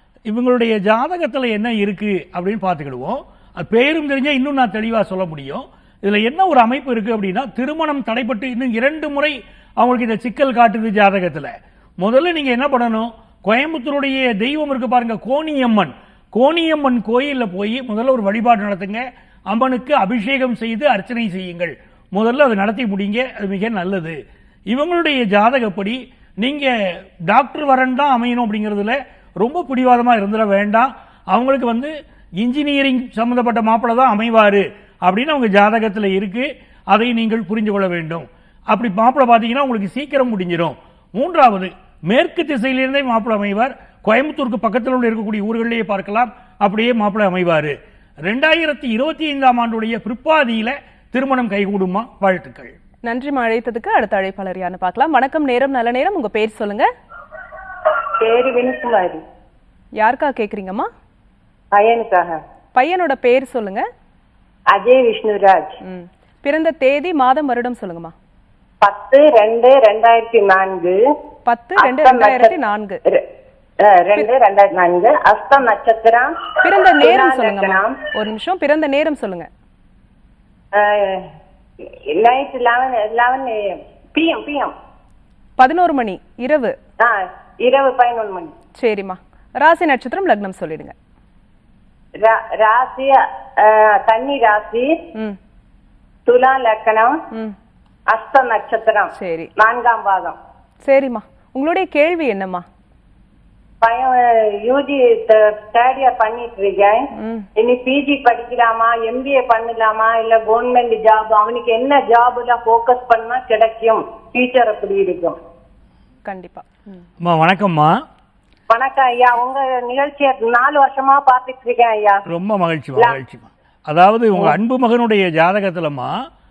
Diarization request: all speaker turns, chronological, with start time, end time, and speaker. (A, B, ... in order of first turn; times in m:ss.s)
0:00.3-0:24.2 A
0:24.7-0:26.7 A
0:27.3-0:52.7 A
0:53.1-0:56.9 B
0:58.2-0:59.2 C
1:00.0-1:00.9 B
1:01.7-1:02.4 C
1:02.7-1:03.8 B
1:04.7-1:05.8 C
1:05.8-1:08.1 B
1:08.8-1:11.0 C
1:11.4-1:13.0 B
1:11.8-1:12.5 C
1:13.8-1:18.0 C
1:16.6-1:19.5 B
1:20.7-1:21.3 C
1:21.8-1:24.7 C
1:25.6-1:26.7 B
1:27.0-1:28.5 C
1:28.8-1:30.9 B
1:32.2-1:34.9 C
1:36.3-1:37.2 C
1:38.1-1:40.4 C
1:39.1-1:39.5 B
1:40.8-1:42.6 B
1:43.8-1:47.0 C
1:47.2-1:47.5 B
1:47.6-1:55.4 C
1:56.2-1:57.0 B
1:57.2-1:57.9 A
1:58.7-2:02.2 C
2:02.3-2:06.1 A